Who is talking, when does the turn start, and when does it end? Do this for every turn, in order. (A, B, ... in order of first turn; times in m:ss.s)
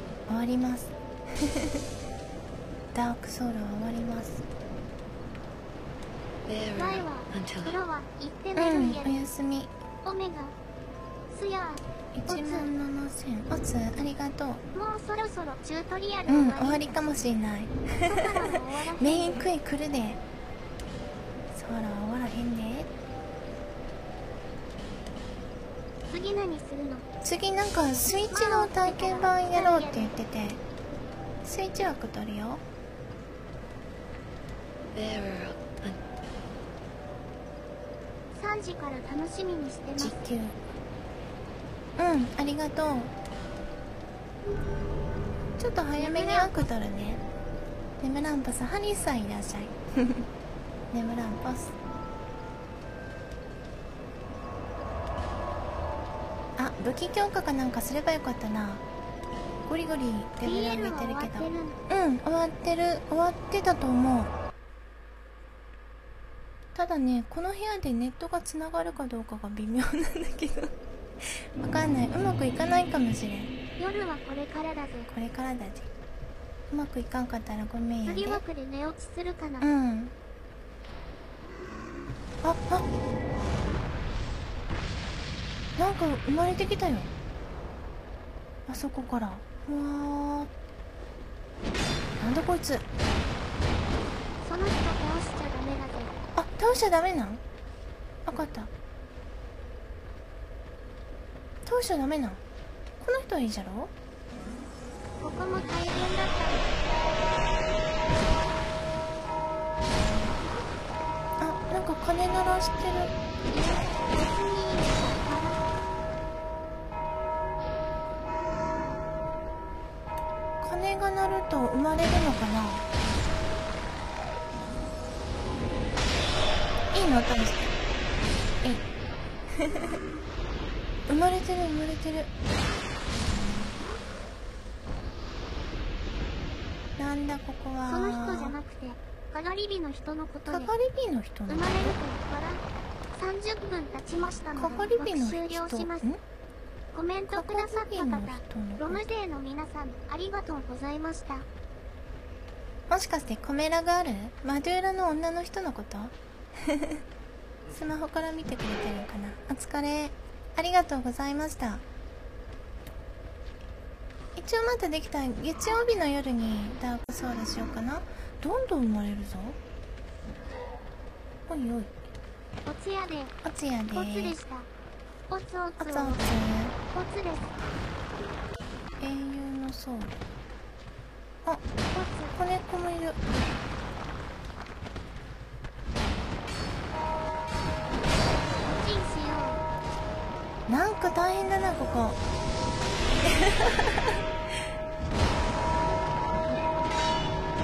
0:00.3-0:01.8 A
0:02.9-0:04.4 A
0:06.4-0:07.8 B
0:06.7-0:09.3 C
0:08.6-0:09.7 A
0:10.0-0:10.5 C
0:11.3-0:12.7 C
0:12.1-0:14.6 A
0:14.7-0:16.9 C
0:16.3-0:20.2 A
0:18.0-0:19.5 C
0:21.5-0:22.9 A
0:26.1-0:27.0 C
0:27.2-0:30.6 A
0:28.3-0:30.1 C
0:31.4-0:32.6 A
0:34.9-0:36.0 B
0:38.3-0:40.2 C
0:40.0-0:40.6 A
0:42.0-0:43.1 A
0:45.6-0:47.2 A
0:45.9-0:46.7 C
0:48.0-0:50.3 A
0:50.9-0:51.7 A
0:56.6-0:58.8 A
0:59.6-1:04.3 A
1:00.4-1:01.8 C
1:06.7-1:13.5 A
1:13.8-1:15.1 C
1:15.1-1:15.9 A
1:16.7-1:18.4 A
1:18.0-1:19.7 C
1:19.6-1:20.1 A
1:22.4-1:22.8 A
1:25.8-1:27.1 A
1:28.7-1:30.5 A
1:32.2-1:32.9 A
1:34.4-1:36.2 C
1:36.4-1:37.4 A
1:38.2-1:38.7 A
1:41.6-1:42.4 A
1:43.0-1:43.9 A
1:45.2-1:46.7 C
1:51.4-1:53.1 A
1:53.5-1:55.7 C
2:00.6-2:02.8 A
2:06.9-2:07.7 A
2:09.5-2:10.0 A
2:11.1-2:12.3 A
2:17.0-2:18.6 A
2:17.9-2:20.7 C
2:20.5-2:22.0 A
2:21.5-2:22.6 C
2:23.1-2:26.0 C
2:24.5-2:26.2 A
2:26.9-2:31.4 C
2:27.3-2:29.0 A
2:32.9-2:37.0 A
2:37.7-2:41.8 A
2:44.4-2:49.6 A
2:51.5-2:51.9 A
2:52.6-2:53.3 C
2:53.4-2:54.4 A
2:53.9-2:54.7 C
2:55.3-2:56.2 C
2:55.8-2:56.8 A
2:56.9-2:57.5 C
2:59.0-3:00.1 A
3:01.9-3:02.4 C
3:02.3-3:03.2 A
3:08.6-3:09.6 C
3:10.7-3:12.2 A
3:13.2-3:14.2 A